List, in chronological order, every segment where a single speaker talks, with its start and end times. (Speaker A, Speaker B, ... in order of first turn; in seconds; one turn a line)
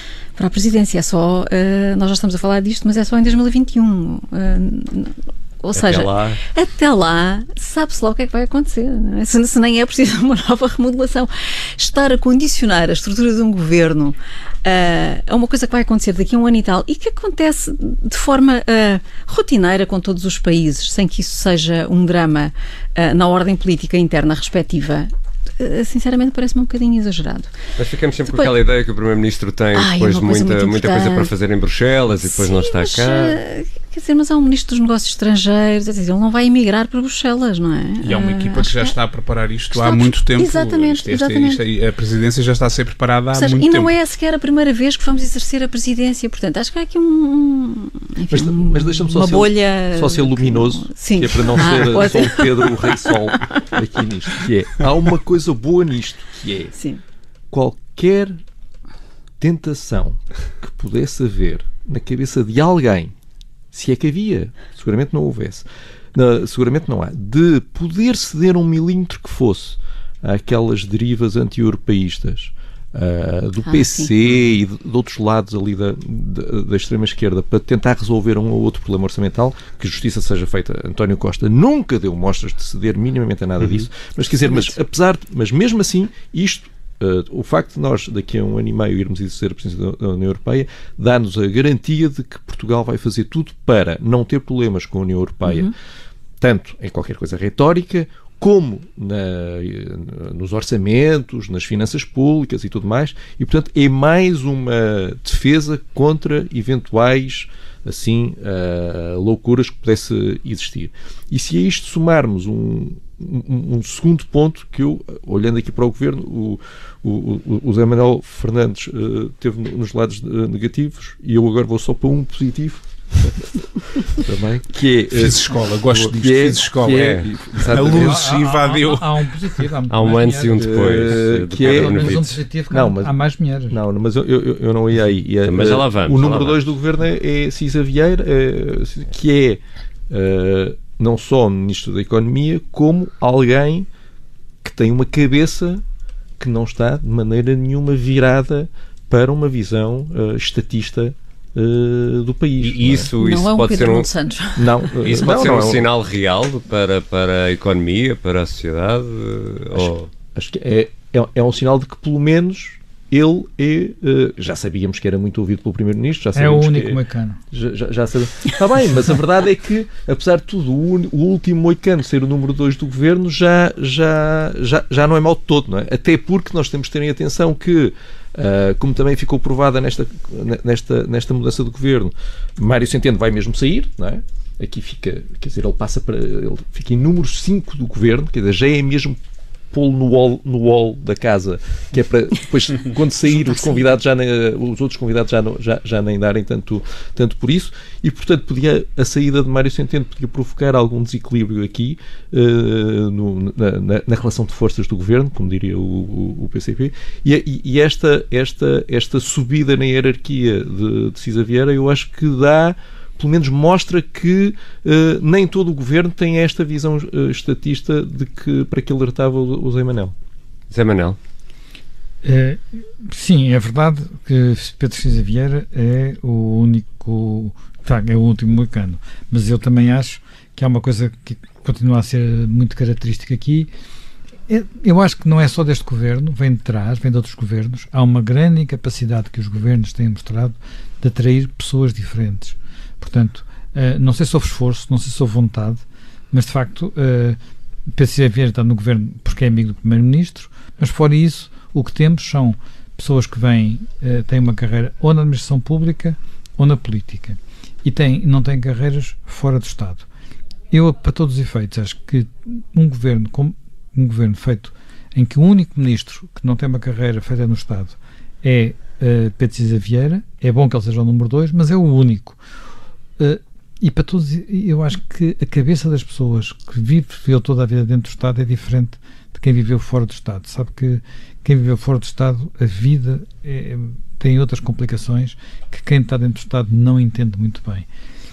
Speaker A: 0.4-27.5
Speaker B: 5.8-6.4
Speaker B: 27.8-33.4
Speaker A: 29.8-31.3
Speaker A: 32.3-39.0
Speaker C: 38.0-43.9
Speaker A: 39.7-41.6
Speaker A: 43.3-53.6
Speaker D: 48.3-56.7
Speaker A: 56.8-57.0
Speaker D: 57.5-58.4
Speaker D: 59.4-63.1
Speaker D: 63.7-95.7
Speaker A: 73.6-74.1
Speaker A: 84.5-84.8
Speaker D: 96.4-128.3
Speaker C: 125.1-129.3
Speaker B: 126.9-127.2
Speaker E: 127.9-133.8
Speaker B: 129.9-132.4
Speaker D: 130.6-133.2
Speaker D: 133.7-143.9
Speaker B: 135.4-136.7
Speaker D: 144.6-145.8
Speaker D: 146.4-153.1
Speaker B: 152.6-154.1
Speaker A: 153.2-154.9
Speaker D: 154.6-155.9
Speaker B: 155.0-160.1
Speaker D: 159.7-189.2
Speaker E: 166.3-167.4
Speaker D: 189.7-220.2
Speaker A: 193.3-193.9
Speaker B: 220.7-221.2
Speaker E: 222.2-233.7
Speaker E: 234.5-260.1
Speaker E: 260.7-272.4
Speaker E: 273.2-287.9